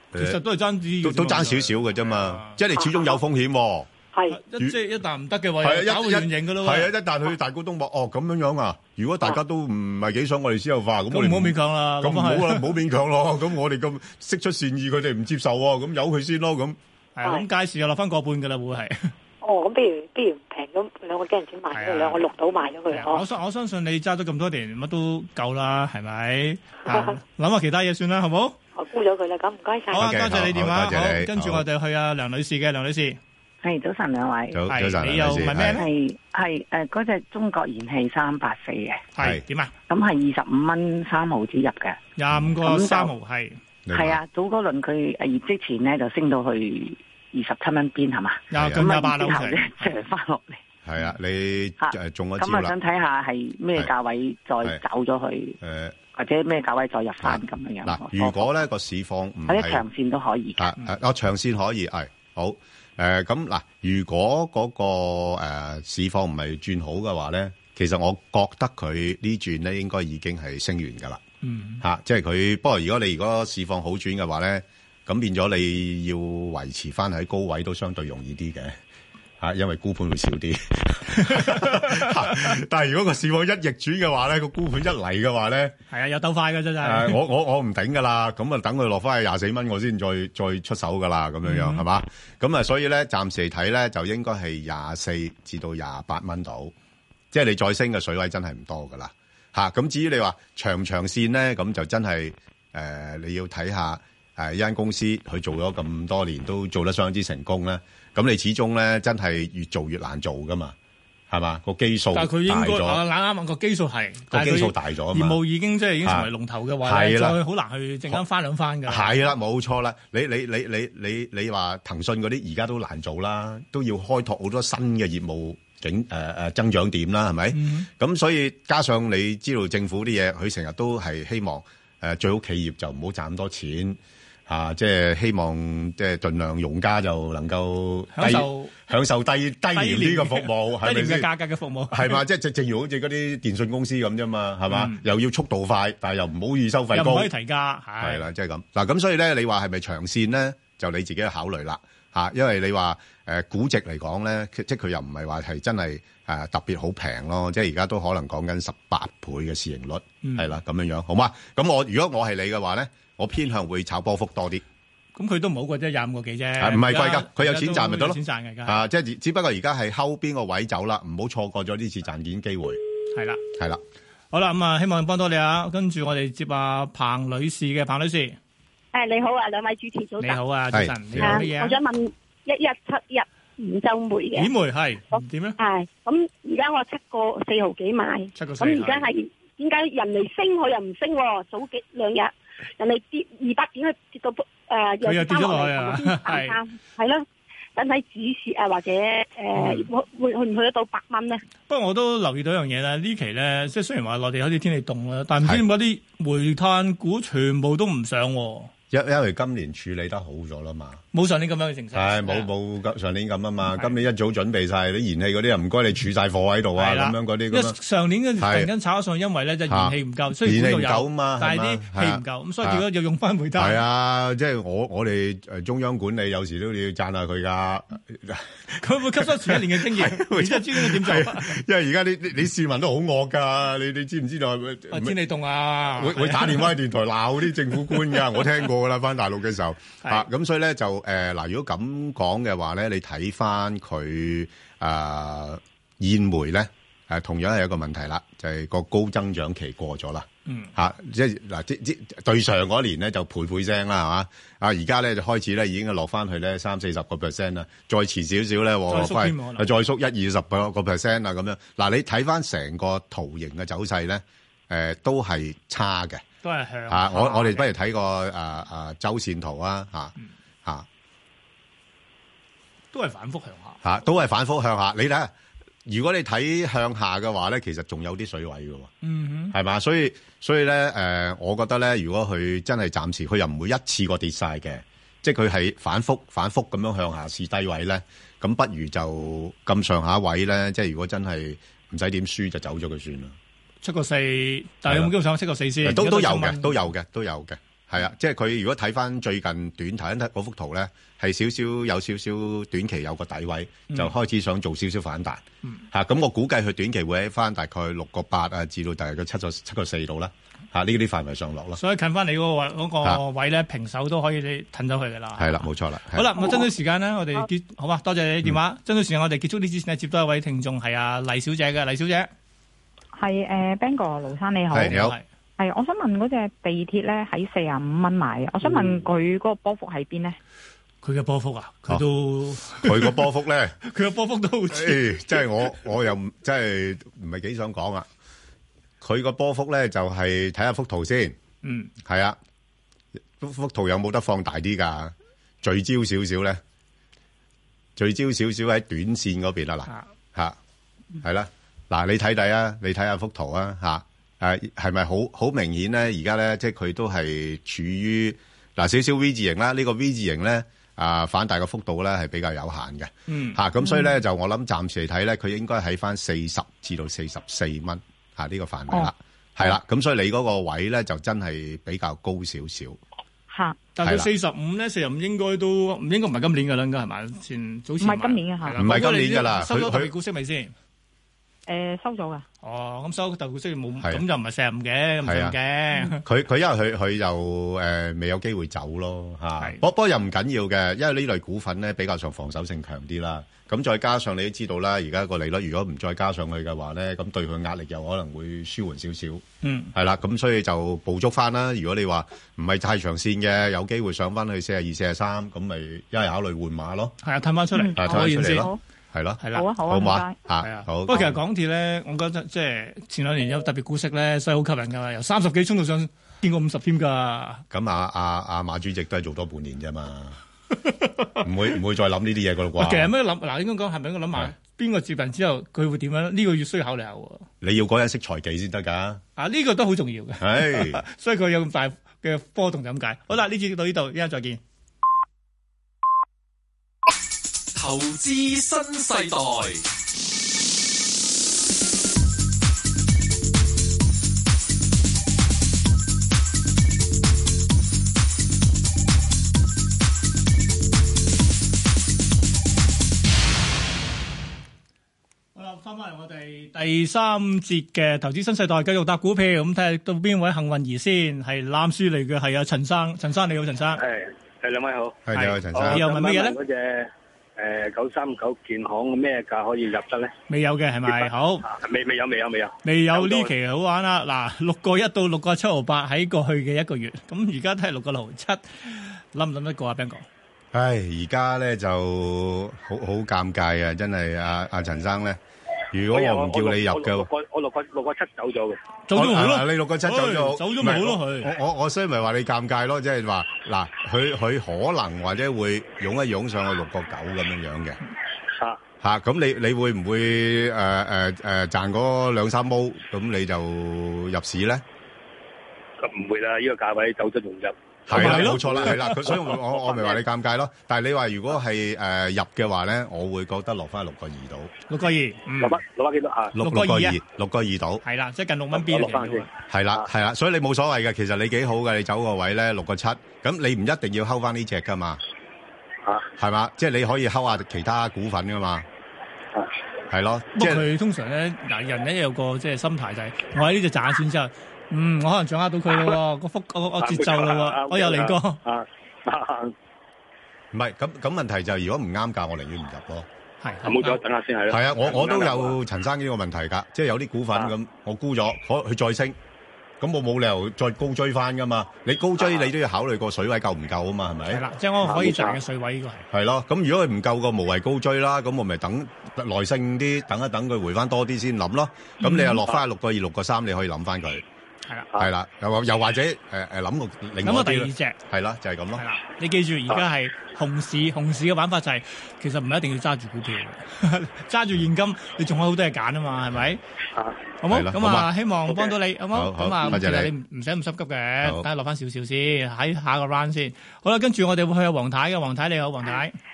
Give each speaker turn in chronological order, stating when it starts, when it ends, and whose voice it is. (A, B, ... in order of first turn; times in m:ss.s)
0:00.1-0:00.4 A
0:00.2-0:02.6 B
0:01.0-0:03.9 A
0:02.7-0:03.2 C
0:04.1-0:04.4 C
0:04.3-0:06.9 B
0:05.6-0:16.8 A
0:11.1-0:12.7 B
0:17.2-0:19.1 B
0:19.4-0:23.2 C
0:21.7-0:22.2 B
0:22.9-0:28.6 B
0:26.9-0:27.1 C
0:28.7-0:30.0 C
0:29.9-0:31.6 A
0:29.9-0:33.2 B
0:33.6-0:34.7 D
0:34.5-0:35.8 A
0:34.7-0:35.8 B
0:35.7-0:39.1 D
0:39.1-0:39.7 B
0:39.9-0:42.0 D
0:42.2-0:43.6 B
0:42.6-0:43.1 D
0:43.8-0:44.2 A
0:43.9-0:50.6 D
0:48.5-0:49.6 B
0:48.5-0:48.8 A
0:50.8-0:52.7 A
0:51.8-0:55.6 D
0:55.6-0:56.0 A
0:56.1-0:58.6 D
0:57.2-0:59.8 A
0:59.5-1:00.7 D
1:00.6-1:11.2 A
1:11.4-1:11.8 B
1:11.8-1:18.8 A
1:19.4-1:25.8 A
1:21.1-1:22.5 B
1:25.9-1:27.2 B
1:26.8-1:36.7 A
1:31.4-1:31.8 B
1:37.3-1:50.7 A
1:51.3-1:53.0 A
1:52.1-1:59.3 B
1:54.3-1:55.4 A
1:56.0-1:56.3 A
1:56.8-1:57.4 A
1:58.9-2:21.3 A
2:07.5-2:07.9 B
2:18.1-2:18.7 B
2:19.7-2:22.2 B
2:21.9-2:27.3 A
2:24.7-2:25.0 B
2:26.9-2:28.2 B
2:28.0-2:44.6 A
2:40.2-2:40.5 B
2:45.1-2:48.8 B
2:46.6-2:52.8 A
2:53.1-2:53.4 B
2:53.5-2:53.8 A
2:54.3-2:58.4 B
2:58.9-3:00.4 E
3:00.2-3:01.8 B
3:00.7-3:01.4 A
3:01.2-3:04.5 E
3:04.4-3:05.6 B
3:05.1-3:17.2 E
3:08.4-3:09.0 B
3:15.0-3:16.6 B
3:17.8-3:21.4 E
3:19.5-3:19.8 B
3:21.7-3:28.7 B
3:28.9-3:31.0 A
3:31.1-3:32.5 B
3:31.9-3:37.8 A
3:33.7-3:34.0 B
3:36.8-3:43.8 B
3:38.4-3:38.7 A
3:39.7-3:42.8 A
3:43.6-3:55.2 A
3:48.7-3:51.6 B
3:54.9-3:56.8 B
3:55.9-4:26.2 A
4:10.5-4:10.7 B
4:18.9-4:19.7 B
4:26.4-4:27.7 B
4:26.9-4:30.9 A
4:32.9-4:33.8 B
4:33.8-4:35.3 A
4:35.8-4:38.9 A
4:39.0-4:39.5 B
4:39.5-4:53.4 A
4:53.8-4:56.8 B
4:54.8-4:55.1 A
4:55.8-5:11.8 A
5:11.8-5:22.3 B
5:15.4-5:16.4 A
5:23.1-5:25.0 F
5:24.7-5:25.2 A
5:24.8-5:25.2 B
5:25.6-5:30.4 F
5:31.0-5:33.2 B
5:32.7-5:33.8 A
5:33.8-5:35.7 B
5:34.7-5:38.1 A
5:39.0-5:41.4 A
5:41.6-5:41.9 B
5:42.0-5:42.4 A
5:43.4-5:46.6 A
5:48.0-5:50.6 A
5:51.2-6:13.0 A
6:03.3-6:03.6 B
6:03.8-6:04.1 F
6:13.5-6:13.8 F
6:14.0-6:20.7 B
6:14.0-6:14.3 A
6:18.0-6:18.8 F
6:18.8-6:20.1 A
6:21.7-6:22.4 F
6:22.6-6:26.2 B
6:25.2-6:25.6 A
6:26.1-6:47.1 A
6:39.6-6:39.9 B
6:47.2-6:48.7 B
6:47.7-6:48.8 F
6:47.9-6:51.4 A
6:49.4-6:49.7 B
6:49.5-6:50.4 F
6:50.6-6:57.6 B
6:57.7-7:00.4 A
7:00.8-7:01.4 B
7:01.4-7:03.1 A
7:02.8-7:07.5 B
7:07.6-7:09.2 A
7:09.4-7:14.6 B
7:10.4-7:11.0 A
7:17.7-7:19.8 G
7:35.5-7:44.0 B
7:44.0-7:50.3 H
7:45.2-7:46.0 A
7:45.3-7:46.6 B
7:50.5-7:51.6 B
7:51.1-7:53.5 H
7:52.8-8:00.2 B
8:00.7-8:05.4 A
8:05.9-8:07.3 A
8:06.1-8:08.8 H
8:09.1-8:11.5 B
8:09.1-8:18.0 A
8:19.0-8:24.8 A
8:26.0-8:30.2 H
8:28.1-8:34.7 A
8:28.1-8:29.3 B
8:34.9-8:35.8 B
8:35.6-8:36.5 H
8:36.5-8:38.0 A
8:36.6-8:37.2 B
8:38.0-8:39.5 B
8:38.7-8:40.1 H
8:39.7-8:45.2 A
8:46.4-8:48.8 A
8:50.1-8:50.8 A
8:50.5-8:58.6 B
8:57.0-8:59.7 H
9:00.7-9:03.3 A
9:03.6-9:04.2 B
9:03.8-9:05.8 H
9:04.7-9:09.4 A
9:10.0-9:14.6 A
9:14.5-9:16.2 B
9:15.0-9:15.6 H
9:16.3-9:24.4 A
9:22.2-9:22.6 B
9:25.1-9:29.0 A
9:27.4-9:28.2 B
9:29.0-9:36.8 B
9:37.1-9:37.4 H
9:37.6-9:46.3 B
9:37.7-9:38.3 A
9:39.3-9:40.3 A